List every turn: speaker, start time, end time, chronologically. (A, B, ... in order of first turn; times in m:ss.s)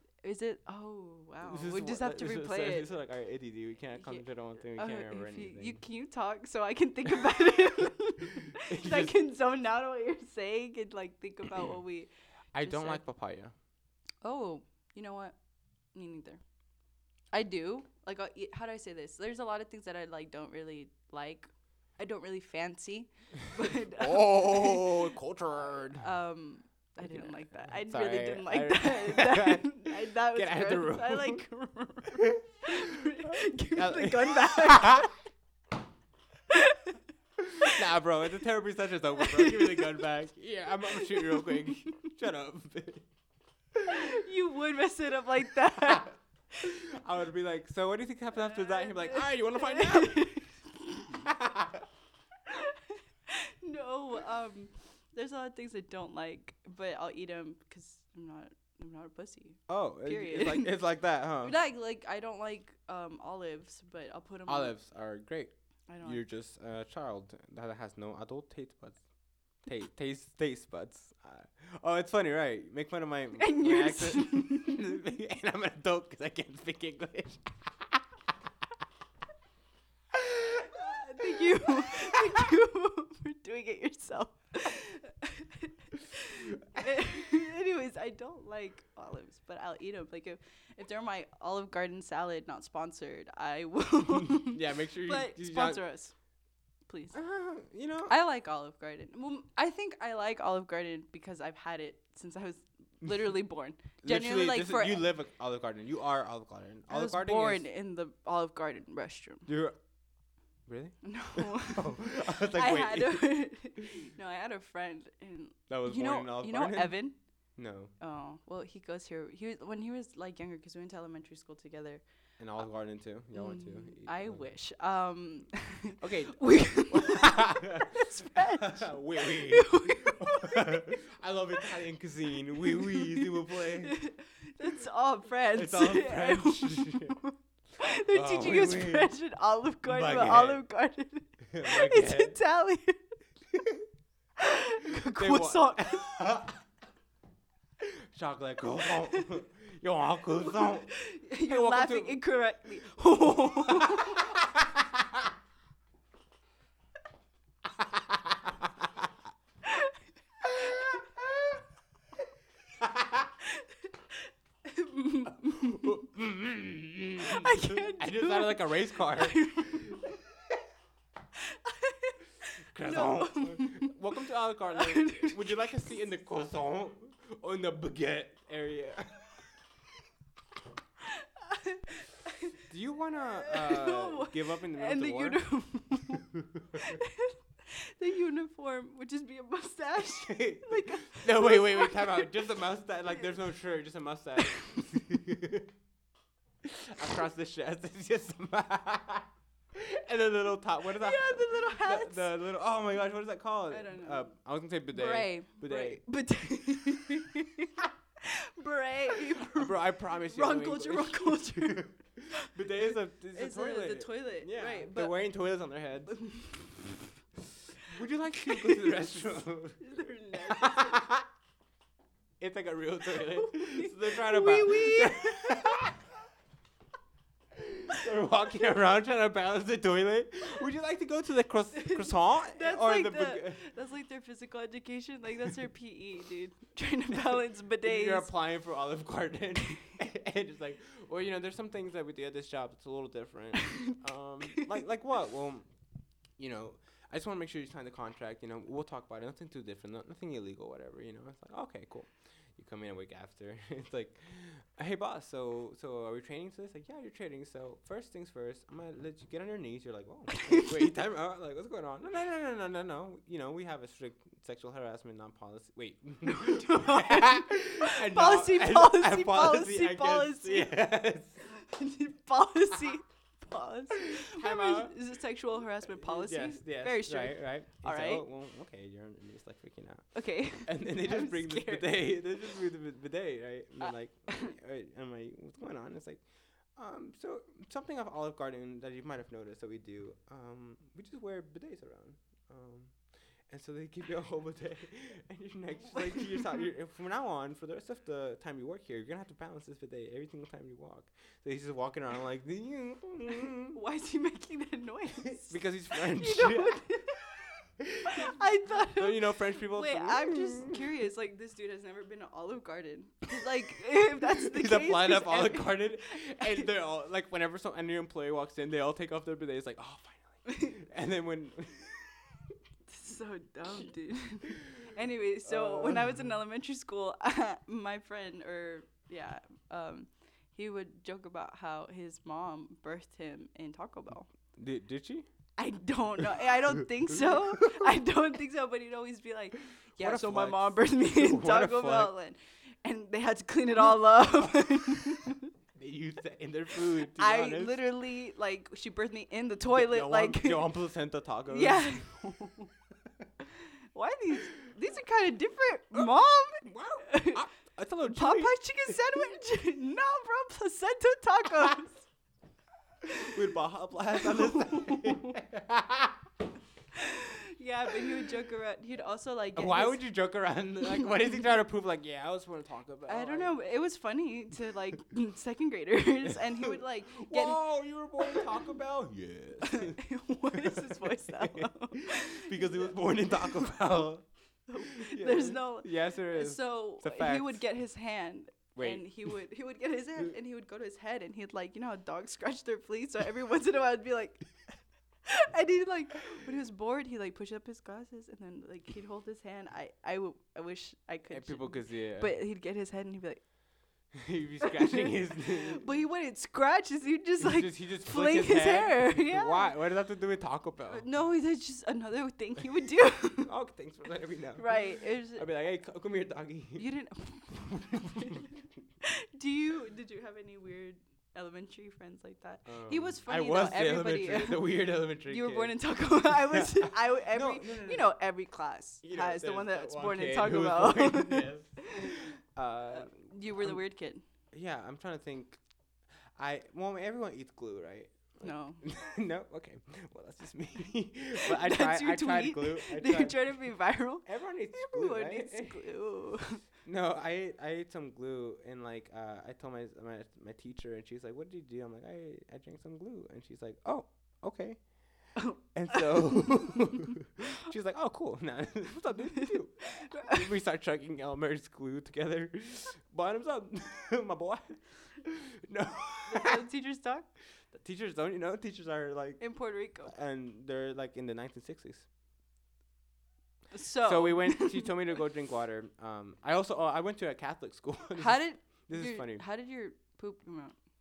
0:00.2-0:02.9 A
0:01.4-0:05.8 B
0:04.0-0:04.2 A
0:04.8-0:13.0 A
0:07.1-0:09.2 B
0:12.5-0:13.5 B
0:14.2-0:15.4 A
0:15.9-0:16.4 A
0:17.3-0:25.0 A
0:24.0-0:26.1 B
0:25.9-0:35.2 A
0:27.0-0:31.4 B
0:32.1-0:35.1 B
0:36.5-0:37.0 A
0:37.4-0:43.0 B
0:39.2-0:40.1 A
0:40.9-0:41.9 A
0:43.7-0:44.2 B
0:43.9-0:46.8 A
0:45.8-0:46.0 B
0:46.6-0:50.3 B
0:48.4-0:51.2 A
0:51.1-0:51.8 B
0:52.4-1:00.8 A
0:59.7-1:01.6 B
1:01.4-1:04.7 A
1:04.5-1:05.5 B
1:05.9-1:06.2 A
1:06.0-1:09.0 B
1:09.6-1:18.0 B
1:13.4-1:14.9 A
1:20.1-1:22.5 B
1:20.7-1:36.1 A
1:34.1-1:35.8 B
1:36.9-1:37.2 A
1:37.1-1:38.1 B
1:38.1-1:45.0 A
1:44.0-1:47.6 B
1:46.9-1:49.5 A
1:49.5-1:49.8 B
1:50.6-1:53.3 B
1:51.0-1:57.2 A
1:55.7-1:57.9 B
1:58.0-2:02.0 A
2:02.4-2:04.4 B
2:03.3-2:10.9 A
2:06.0-2:14.0 B
2:12.7-2:23.0 A
2:15.5-2:17.2 B
2:18.1-2:19.1 B
2:19.8-2:20.6 B
2:21.5-2:22.4 B
2:23.5-2:23.9 B
2:24.4-2:26.2 A
2:25.0-2:26.6 B
2:27.8-2:30.9 B
2:30.4-2:34.4 A
2:31.4-2:32.2 B
2:33.4-2:35.3 B
2:37.8-2:39.1 B
2:39.6-2:40.0 A
2:40.5-2:41.0 A
2:40.6-2:41.0 B
2:42.8-2:43.3 B
2:43.4-2:46.0 A
2:45.3-2:50.1 B
2:47.2-2:50.2 A
2:51.4-2:54.0 A
2:52.7-2:59.4 B
2:54.7-2:55.9 A
3:01.0-3:02.6 A
3:02.6-3:05.4 B
3:03.4-3:12.5 A
3:06.1-3:07.0 B
3:10.2-3:15.7 B
3:16.6-3:26.0 B
3:20.9-3:22.3 A
3:23.7-3:24.3 A
3:24.9-3:32.5 A
3:29.4-3:36.2 B
3:33.3-3:35.1 A
3:36.1-3:37.0 A
3:37.8-3:41.3 B
3:38.4-3:39.0 A
3:39.8-3:41.1 A
3:42.4-3:46.0 B
3:43.1-3:45.9 A
3:47.5-3:53.6 B
3:51.8-3:58.3 A
3:57.8-4:05.7 B
4:06.4-4:31.4 B
4:20.3-4:20.9 A
4:26.2-4:30.8 A
4:31.4-4:38.2 A
4:34.0-4:35.0 B
4:35.9-4:46.2 B
4:40.1-4:42.2 A
4:43.8-4:44.6 A
4:46.7-4:53.0 B
4:53.5-5:03.8 B
5:03.7-5:07.4 A
5:05.4-5:06.8 B
5:07.8-5:10.8 B
5:08.0-5:16.7 A
5:14.3-5:22.6 B
5:20.5-5:20.7 A
5:22.9-5:34.3 A
5:25.4-5:26.4 B
5:34.6-5:35.2 B
5:35.6-5:45.5 A
5:36.4-5:37.9 B
5:40.0-5:42.1 B
5:45.8-5:47.8 B
5:47.1-5:50.7 A
5:49.7-5:52.0 B
5:51.5-5:52.7 A
5:53.9-5:57.4 A
5:56.6-5:59.3 B
5:58.1-6:02.1 A
6:03.0-6:06.2 B
6:04.1-6:05.4 A
6:06.9-6:10.0 A
6:07.9-6:08.3 B
6:09.6-6:13.5 B
6:13.1-6:17.6 A
6:16.6-6:24.2 B
6:18.2-6:18.6 A
6:19.6-6:23.7 A
6:24.7-6:34.6 A
6:24.8-6:27.6 B
6:28.8-6:29.4 B
6:35.2-6:43.4 A
6:41.3-6:42.4 B
6:44.1-6:45.8 B
6:44.6-6:49.7 A
6:47.4-6:51.0 B
6:50.8-6:53.5 A
6:53.4-6:56.9 B
6:54.6-6:55.4 A
6:56.8-7:12.2 A
6:57.8-6:58.4 B
7:02.6-7:08.1 B
7:09.0-7:13.8 B
7:12.9-7:14.2 A
7:14.5-7:15.6 B
7:16.4-7:23.6 B
7:18.4-7:18.8 A
7:21.4-7:26.6 A
7:24.2-7:25.9 B
7:26.8-7:46.6 B
7:35.4-7:36.4 A
7:39.4-7:40.4 A
7:46.3-7:47.3 A
7:47.7-7:49.4 B
7:49.4-7:50.1 A
7:50.0-7:52.1 B
7:53.7-7:55.0 A
7:54.0-7:59.4 B
7:58.2-8:00.7 A